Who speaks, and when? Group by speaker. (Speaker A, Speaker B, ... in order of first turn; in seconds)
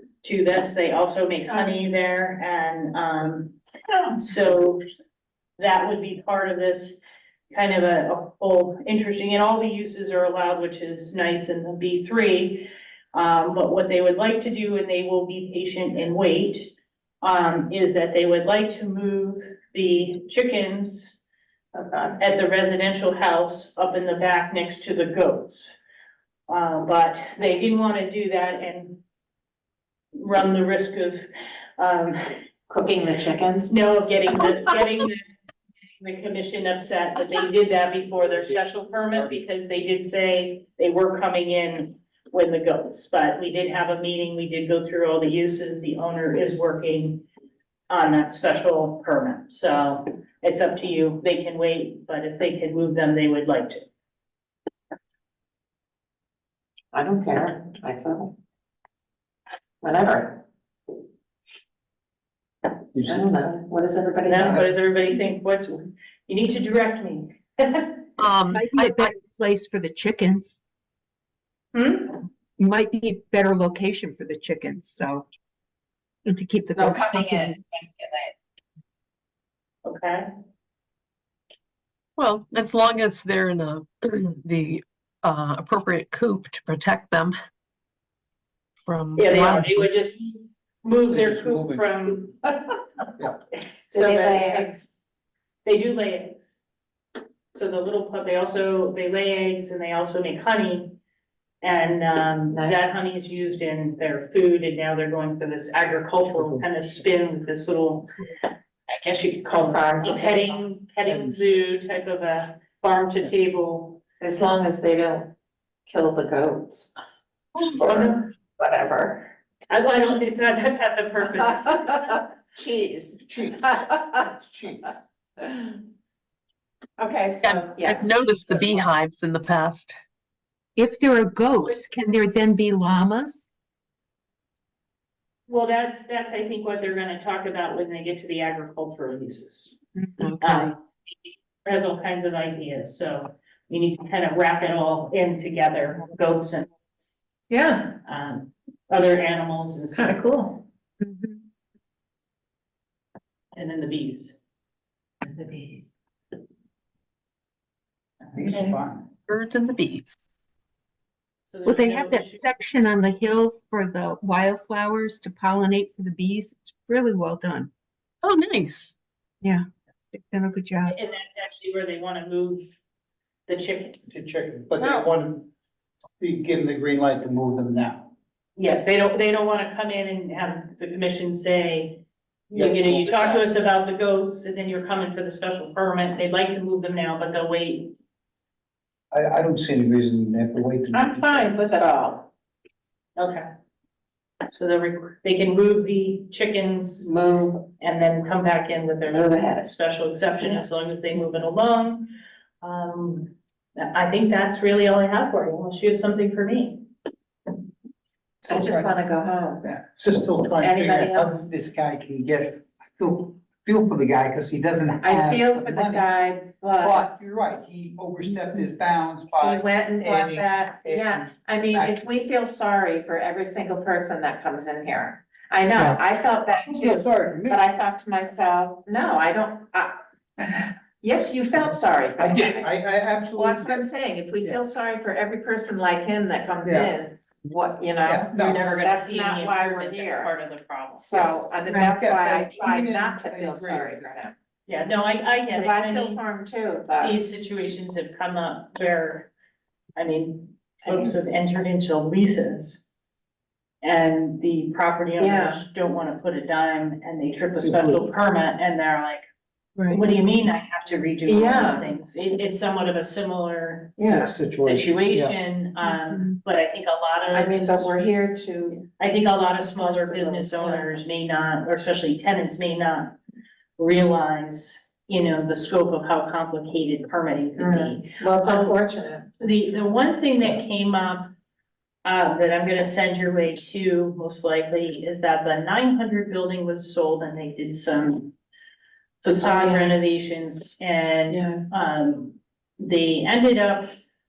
Speaker A: 0.2-3.5, 4.2-4.8, 5.6-7.0, 7.5-21.1, 22.2-25.7, 26.5-29.0, 30.1-31.3, 31.8-32.4, 33.7-35.2, 36.0-47.2, 47.9-53.8, 64.2-68.0, 71.7-72.2, 79.8-80.3, 89.2-92.4, 93.9-94.7, 95.7-96.5, 97.5-101.0, 101.6-108.1, 108.9-114.0, 117.8-118.3, 119.7-122.3, 135.5-139.8, 140.4-140.8, 141.6-146.7, 147.9-150.7, 153.6-154.4, 158.3-158.8, 161.5-162.4, 170.9-172.7, 173.5-174.0, 178.6-187.9, 193.2-193.4, 194.5-197.1, 197.8-202.1, 202.6-206.8, 238.3-241.4, 244.7-246.2, 247.0-249.3, 250.0-252.8, 253.8-259.2, 259.9-264.0, 264.6-268.1, 269.0-273.2, 273.8-278.8, 279.4-281.3, 282.1-288.4, 289.2-293.9
Speaker B: 21.7-22.2, 32.7-33.7, 56.9-58.4, 59.8-60.4, 63.0-64.6, 76.8-78.3, 93.9-94.9, 102.5-102.8, 109.5-110.6, 114.2-115.3, 115.9-116.9, 117.7-119.3, 121.9-124.3, 125.4-125.8, 127.0-128.1, 140.2-140.6, 155.2-155.9, 174.8-175.1, 183.1-183.4, 190.9-192.3, 197.0-197.7, 199.1-199.7, 200.4-200.9, 208.5-209.6, 210.6-211.5, 215.0-217.1, 219.4-232.7, 233.3-240.3, 241.0-244.3, 245.5-247.2, 250.8-251.1, 255.2-255.6, 261.3-261.9, 264.0-264.3, 267.3-268.9, 269.8-271.0, 277.6-279.4, 289.4-289.9, 291.3-291.6
Speaker C: 63.0-63.2, 91.1-91.8, 106.4-106.6, 111.1-111.4, 123.2-125.0, 158.3-159.1, 174.1-175.5, 176.2-178.1, 182.5-183.1, 189.1-191.5, 208.4-208.9, 209.6-216.1, 216.8-222.1, 226.5-227.6, 231.7-234.6, 236.6-236.9, 238.0-238.7, 241.9-244.2, 257.6-258.0, 264.1-265.4
Speaker D: 68.2-69.1, 82.2-87.4, 88.9-89.9, 117.6-117.9, 127.4-130.0, 159.3-160.2, 168.2-168.9, 225.7-226.0
Speaker E: 68.5-70.6, 72.6-75.2, 76.3-77.6, 130.8-133.5, 161.7-167.7, 169.4-171.0, 241.7-241.9, 259.8-260.0